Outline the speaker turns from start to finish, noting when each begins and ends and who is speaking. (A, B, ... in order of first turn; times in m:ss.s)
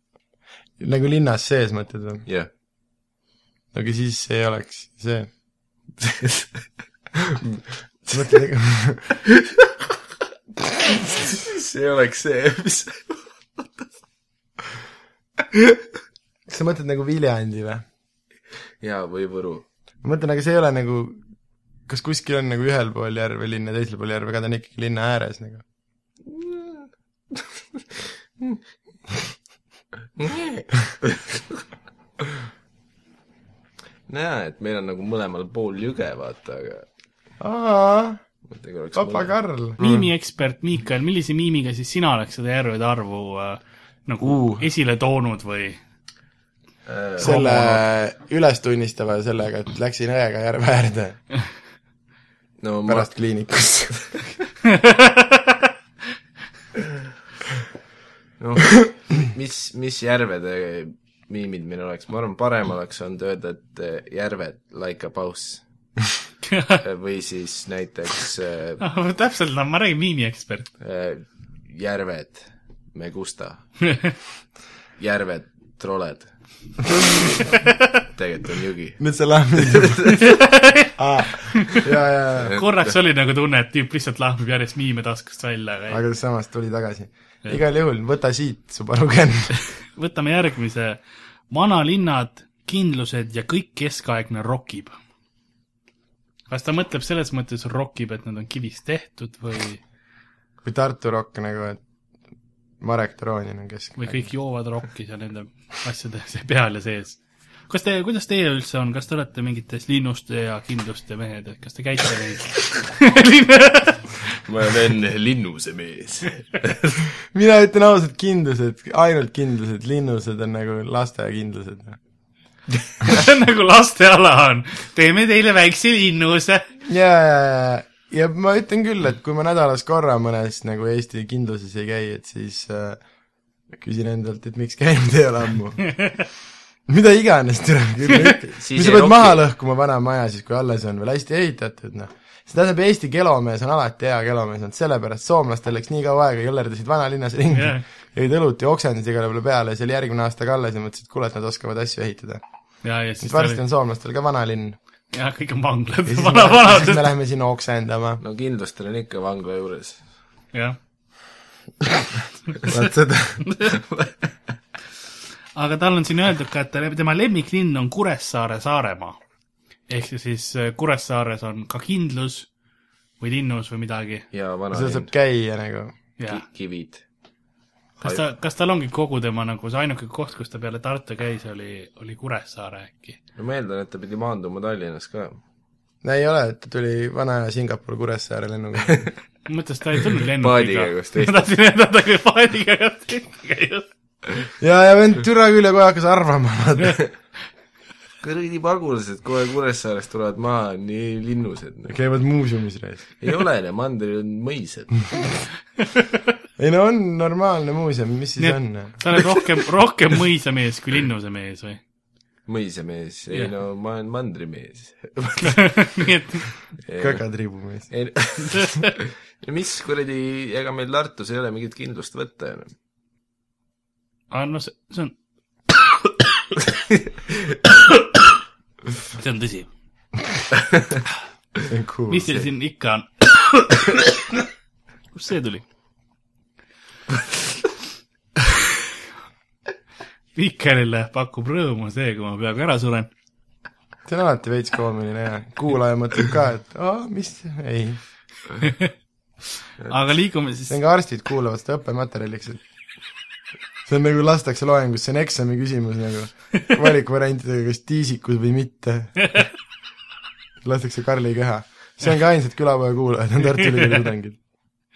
0:00.8-0:02.3 A
0:03.7-0:05.3 A
0:06.0-0:06.5 B
0:07.2-0:07.6 B
0:08.1-0:09.2 A
0:10.9-0:13.9 B
0:16.5-0:17.8 A
0:18.8-0:19.6 B
0:20.0-0:21.2 A
0:21.9-0:25.6 A
0:26.2-0:27.4 B
0:30.2-0:31.4 B
0:34.1-0:36.9 B
0:37.4-0:38.2 A
0:38.5-0:40.0 B
0:39.0-0:39.8 A
0:39.8-0:45.8 C
0:44.3-0:44.6 A
0:46.9-0:47.8 B
0:47.2-0:51.2 A
0:52.6-0:53.1 B
0:52.9-0:54.0 A
0:54.7-0:55.5 C
0:58.4-1:05.6 B
1:06.5-1:06.8 C
1:06.8-1:08.8 B
1:08.8-1:10.7 C
1:10.8-1:13.6 B
1:13.9-1:14.1 C
1:15.0-1:16.3 B
1:17.9-1:19.1 B
1:19.0-1:20.2 A
1:19.6-1:20.4 B
1:20.2-1:20.9 C
1:21.0-1:22.6 A
1:22.4-1:23.0 B
1:22.5-1:26.0 C
1:25.9-1:29.5 A
1:30.0-1:34.9 C
1:36.5-1:39.8 C
1:40.6-1:41.8 A
1:42.8-1:44.2 A
1:44.0-1:54.2 C
1:54.4-1:57.0 B
1:57.3-2:02.0 A
2:03.0-2:06.7 C
2:06.9-2:13.0 A
2:13.7-2:15.9 A
2:16.9-2:32.4 A
2:18.5-2:19.4 B
2:27.5-2:27.8 C
2:32.8-2:33.6 C
2:33.2-2:34.8 A
2:35.1-2:37.1 C
2:36.1-2:38.2 A
2:38.2-2:40.0 B
2:40.5-2:40.8 C
2:42.6-2:43.4 A
2:43.5-2:43.8 C
2:43.7-2:44.2 B
2:45.6-2:49.2 C
2:49.9-2:52.5 C
2:53.2-2:54.3 C
2:54.3-2:55.1 B
2:54.7-2:56.0 A
2:56.2-2:56.4 C
2:56.3-2:57.0 B
2:58.0-3:03.2 C
3:03.4-3:05.4 B
3:06.0-3:09.0 A
3:09.5-3:13.9 C
3:10.4-3:11.5 B
3:14.6-3:17.0 A
3:18.2-3:22.0 B
3:21.9-3:23.1 A
3:23.2-3:25.3 B
3:26.6-3:29.0 A
3:28.4-3:31.8 C
3:32.5-3:35.9 B
3:35.4-3:36.5 C
3:36.8-3:37.2 B
3:37.0-3:37.9 A
3:37.9-3:42.7 B
3:38.5-3:38.9 C
3:44.3-3:45.2 C
3:49.1-3:49.7 C
3:51.7-3:52.4 A
3:52.1-3:54.0 C
3:55.1-3:55.6 C
4:00.4-4:03.1 C
4:04.1-4:08.0 A
4:08.6-4:08.9 C
4:09.9-4:10.8 C
4:10.7-4:12.6 A
4:13.9-4:19.4 A
4:20.6-4:24.4 A